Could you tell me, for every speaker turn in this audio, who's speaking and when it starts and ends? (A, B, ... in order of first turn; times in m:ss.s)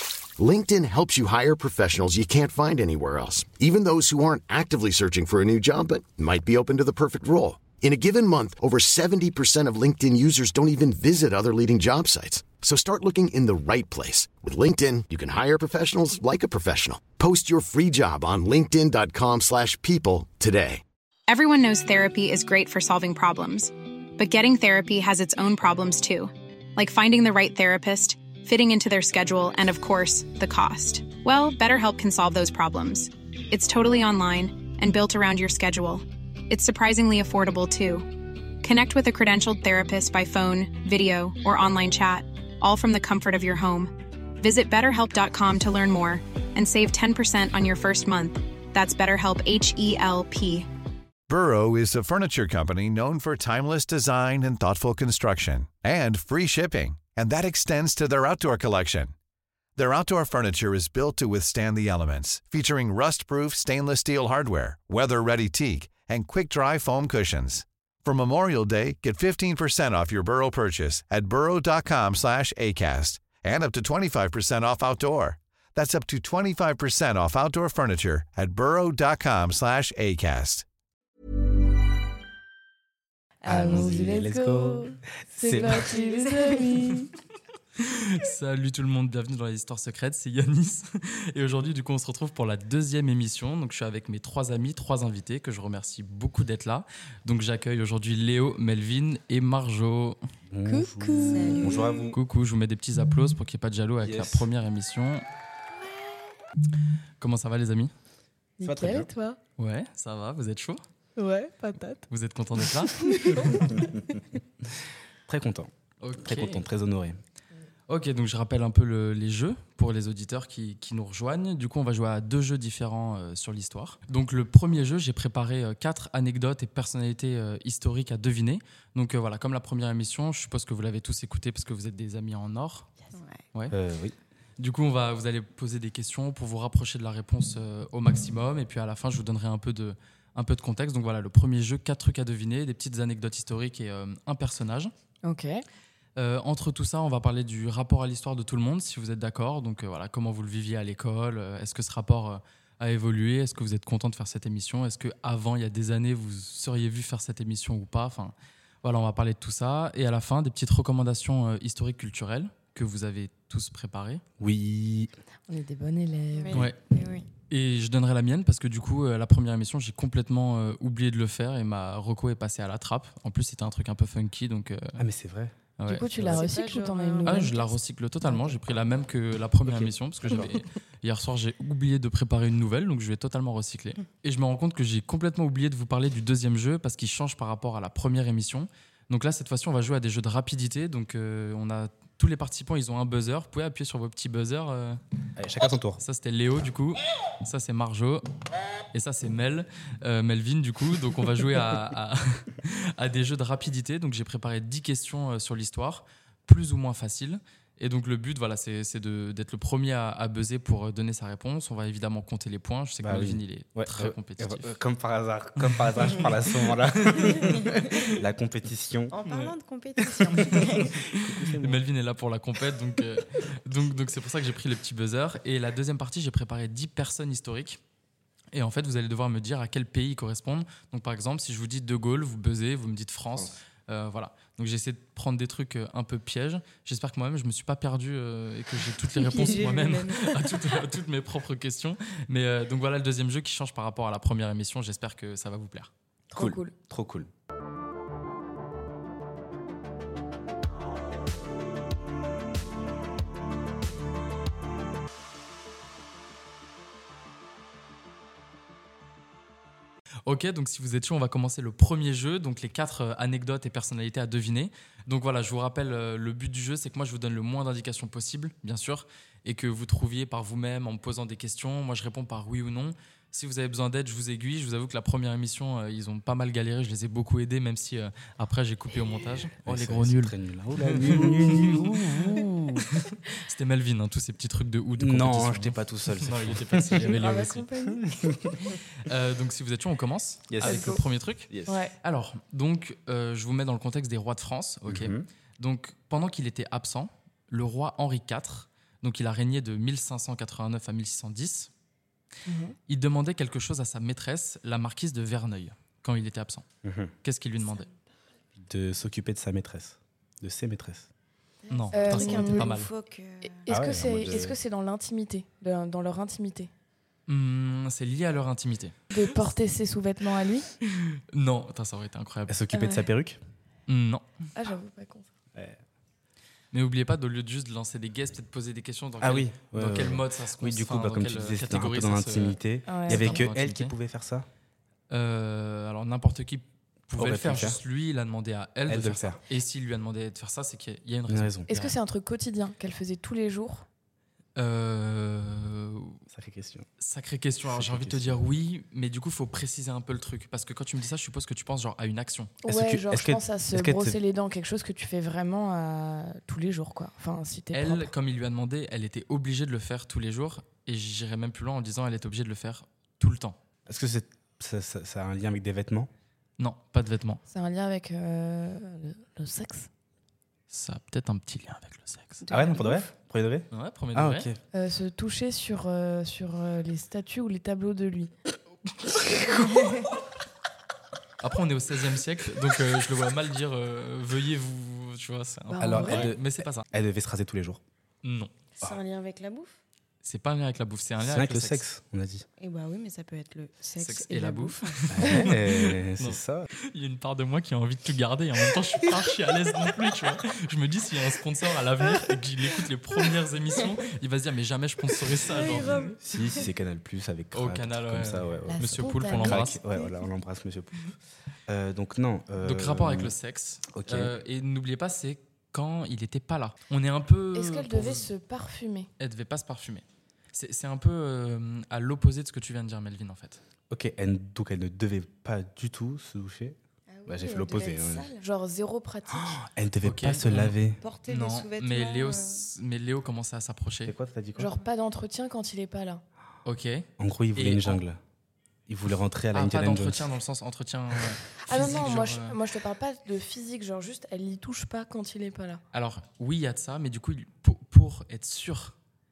0:00.4-0:20.8 A
0:21.3-0:50.7 B
0:51.3-0:59.1 C
0:59.8-1:20.6 C
1:23.4-1:27.1 D
1:23.5-1:25.9 E
1:25.7-1:27.0 F
1:27.8-1:40.2 G
1:40.5-1:42.2 E
1:40.7-1:41.8 D
1:41.2-1:42.2 F
1:42.1-1:45.2 G
1:44.0-1:44.5 E
1:47.2-1:47.9 G
1:48.6-1:49.4 D
1:48.6-1:49.1 E
1:49.6-1:50.8 G
1:51.2-1:52.0 D
1:52.1-1:53.5 G
1:52.9-1:53.7 D
1:53.7-1:54.0 E
1:54.7-1:57.2 E
1:56.0-1:56.6 G
1:57.9-2:12.9 G
2:13.1-2:13.4 F
2:13.7-2:14.2 E
2:14.6-2:24.9 G
2:25.2-2:25.6 D
2:26.2-2:44.2 G
2:44.4-2:45.1 E
2:45.5-2:46.6 D
2:46.4-2:47.3 F
2:46.5-2:46.8 G
2:47.5-2:55.0 G
2:55.0-2:55.6 E
2:55.8-2:56.1 G
2:55.9-2:57.7 D
2:56.2-2:56.4 E
2:56.3-2:57.8 F
2:57.2-3:15.0 G
2:58.2-2:58.5 D
2:59.6-3:00.6 E
3:15.4-3:16.0 E
3:16.0-3:18.2 G
3:18.9-3:34.7 G
3:33.0-3:39.2 E
3:35.6-3:36.3 G
3:37.0-3:37.6 G
3:37.4-3:37.9 F
3:39.1-3:41.0 F
3:40.3-3:41.8 E
3:40.4-3:47.8 G
3:48.5-4:05.9 G
3:53.3-3:53.6 E
3:59.1-4:00.8 F
4:06.3-4:06.7 D
4:06.4-4:07.3 E
4:20.3-4:47.7 G
4:39.6-4:42.9 E
4:45.0-4:47.2 E
4:47.0-4:48.1 D
4:48.0-4:48.7 E
4:49.0-4:51.5 G
4:50.5-4:51.8 E
4:50.6-4:51.0 D
4:51.7-4:51.9 D
4:52.0-5:01.7 G
4:54.9-4:55.3 E
5:02.5-5:02.8 D
5:02.9-5:06.6 G
5:06.8-5:07.1 E
5:07.2-5:07.9 G
5:08.6-5:11.1 E
5:11.6-5:13.7 F
5:11.7-5:12.9 G
5:11.9-5:12.7 D
5:13.5-5:16.7 D
5:13.7-5:14.6 E
5:17.3-5:19.0 G
5:19.1-5:20.7 D
5:20.9-5:22.6 G
5:22.5-5:23.4 E
5:22.7-5:23.1 D
5:23.9-5:24.2 G
5:24.6-5:25.3 D
5:25.5-5:25.8 E
5:26.7-5:33.9 G
5:29.2-5:34.5 E
5:32.9-5:33.4 D
5:35.1-5:42.0 G
5:37.2-5:37.8 E
5:38.9-5:39.4 E
5:41.3-5:41.7 E
5:41.7-5:43.9 D
5:44.6-5:46.2 G
5:46.3-5:46.9 E
5:47.0-5:52.6 G
5:47.7-5:48.4 E
5:52.6-5:58.1 D
5:52.7-5:54.2 E
5:57.7-6:03.6 G
6:03.9-6:06.1 E
6:06.6-6:07.4 G
6:07.5-6:09.9 D
6:10.7-6:12.4 G
6:12.4-6:13.1 F
6:12.5-6:14.6 E
6:13.7-6:14.5 G
6:14.7-6:18.3 D
6:21.4-6:26.8 G
6:25.7-6:26.3 D
6:25.8-6:27.8 E
6:28.2-6:28.5 G
6:28.8-6:29.8 F
6:30.2-6:31.8 G
6:31.2-6:32.5 E
6:32.6-6:35.1 F
6:34.0-6:46.0 G
6:35.1-6:36.7 E
6:45.4-6:46.7 F
6:45.7-6:51.1 E
6:47.5-6:49.8 G
6:48.7-6:49.8 D
6:51.7-6:53.4 E
6:52.6-6:58.3 G
6:53.9-6:54.3 E
6:57.5-6:59.1 D
6:59.2-7:03.6 G
7:03.9-7:08.3 E
7:07.1-7:08.4 F
7:08.4-7:09.6 D
7:09.3-7:11.0 E
7:10.0-7:10.8 G
7:11.0-7:12.7 F
7:11.3-7:14.1 G
7:14.0-7:14.7 E
7:14.6-7:16.2 D
7:16.6-7:18.0 G
7:17.2-7:18.2 E
7:18.9-7:20.3 E
7:19.5-7:22.6 G
7:21.7-7:25.8 D
7:25.9-7:29.0 G